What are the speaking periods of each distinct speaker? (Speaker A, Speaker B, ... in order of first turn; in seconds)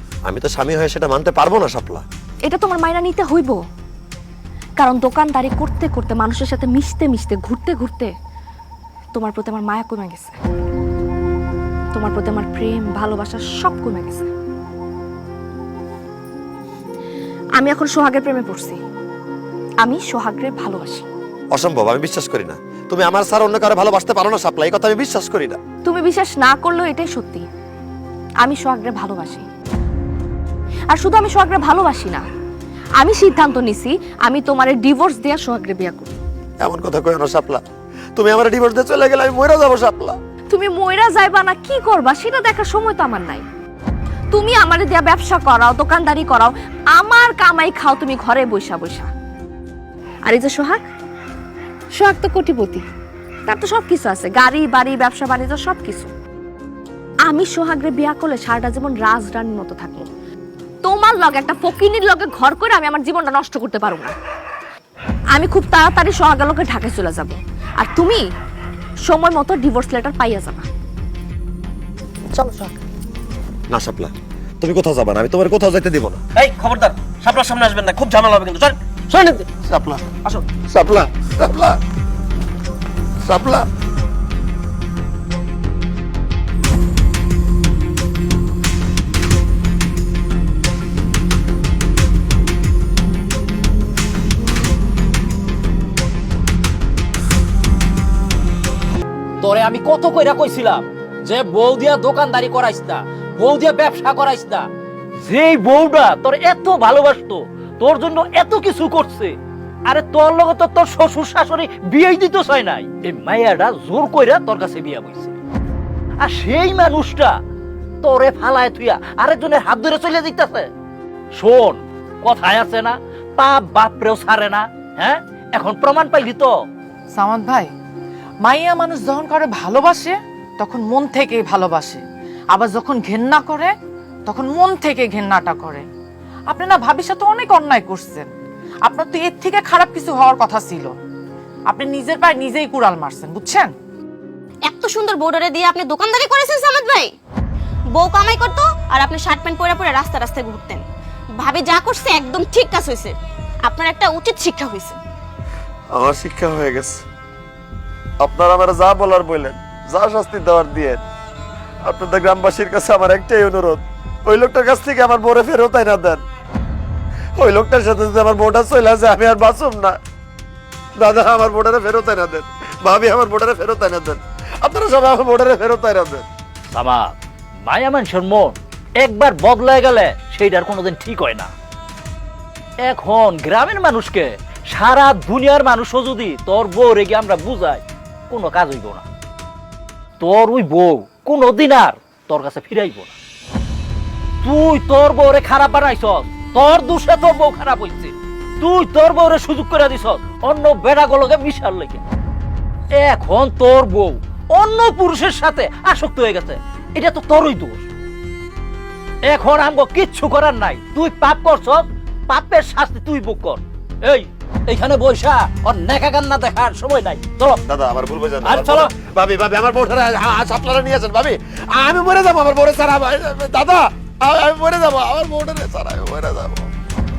Speaker A: 0.3-2.0, 21.5-25.6, 36.6-37.6, 38.2-40.2, 73.7-76.2, 79.6-81.8, 83.2-83.7, 155.9-157.1, 158.2-161.0, 161.9-166.2, 167.4-170.0, 171.0-176.3, 217.7-226.7
Speaker B: 2.5-3.6, 4.8-8.1, 9.1-10.4, 11.9-14.3, 17.6-18.8, 19.8-21.1, 25.8-27.5, 28.4-29.4, 30.9-32.2, 33.0-36.1, 40.5-43.4, 44.3-49.1, 50.3-50.8, 51.9-52.8, 53.5-56.1, 57.3-60.1, 60.8-64.1, 65.3-68.2, 69.1-70.7
Speaker C: 72.4-72.7, 76.4-79.5
Speaker D: 99.4-104.7, 105.2-109.3, 109.9-115.3, 116.2-117.4, 118.0-120.7, 121.3-126.5, 176.7-181.5, 182.8-189.1, 190.2-193.1, 194.4-202.0, 202.9-207.9, 209.2-217.6, 218.4-218.9
Speaker E: 127.2-127.7, 128.5-130.1, 130.6-132.0, 132.6-133.7, 134.3-135.8, 136.5-138.3, 138.9-140.9, 141.7-143.7
Speaker F: 144.7-147.1, 147.9-150.8, 151.4-155.0